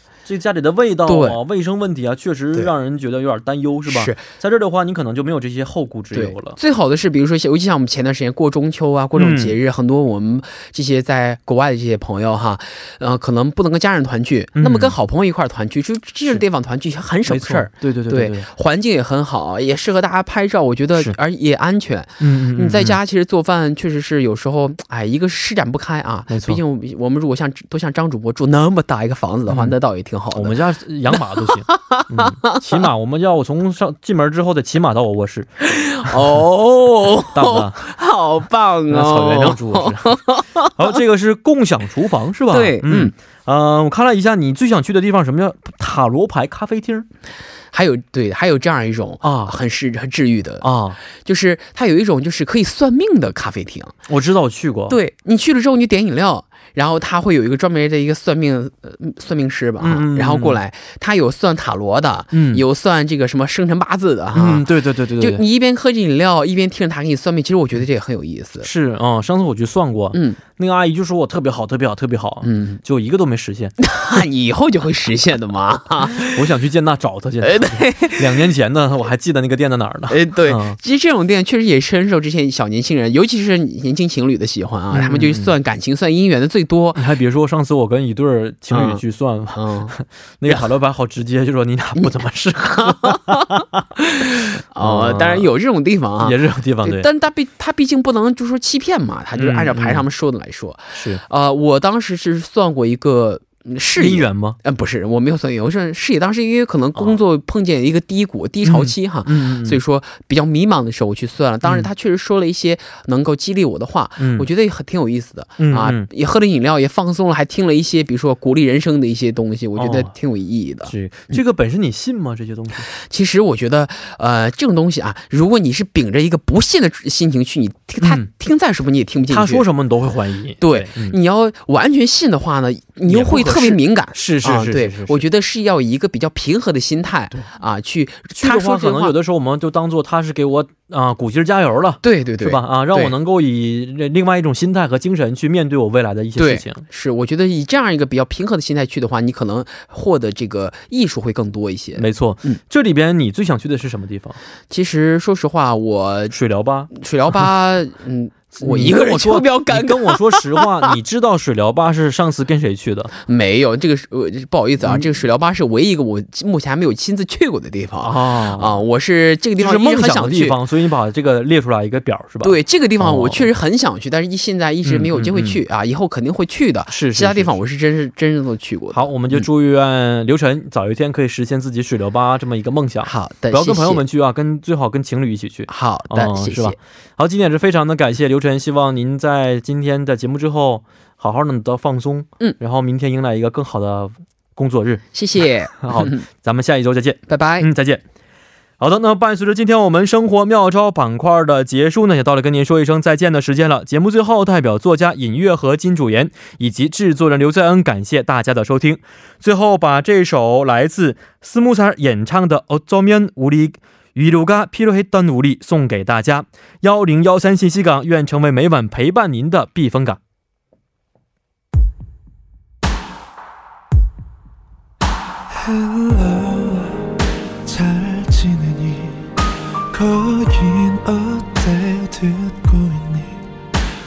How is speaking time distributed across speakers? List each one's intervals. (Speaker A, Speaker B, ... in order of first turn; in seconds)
Speaker A: 0.2-6.6, 9.2-9.6, 14.5-14.9, 17.3-18.5, 22.2-23.0, 26.3-26.6, 29.5-29.7, 30.3-35.5, 37.3-37.9, 38.9-40.2, 40.8-47.1, 49.2-49.5, 50.6-51.0, 54.1-55.0, 59.8-60.6, 62.3-62.6, 64.3-65.4, 68.6-73.7, 76.0-80.8, 84.9-85.5, 86.9-93.8, 94.8-95.5, 96.2-97.1, 99.3-100.1, 100.9-101.2, 104.0-104.6, 108.6-109.8, 114.2-114.5, 115.6-116.0, 119.8-120.1, 120.8-122.8, 128.0-128.3, 129.3-131.2, 133.1-135.2, 138.3-146.8, 151.9-154.4, 156.3-157.5, 158.6-163.1, 164.8-165.1, 168.0-168.8, 169.6-173.5, 174.8-175.6, 176.9-177.5, 178.9-195.0, 195.8-198.0, 198.8-220.2
Speaker B: 1.1-1.4, 3.8-4.2, 6.1-30.6, 31.1-32.8, 35.6-40.9, 42.5-43.1, 47.7-53.9, 54.9-68.7, 70.1-70.4, 72.4-72.8, 73.8-76.5, 77.4-78.5, 80.1-87.0, 88.7-89.9, 92.7-121.4, 122.8-129.7, 130.6-139.1, 142.0-143.1, 146.4-152.6, 154.7-156.3, 156.9-160.9, 163.2-170.6, 172.4-179.4, 183.0-184.0, 185.7-186.8, 195.1-196.2, 197.3-197.7
Speaker C: 225.5-233.8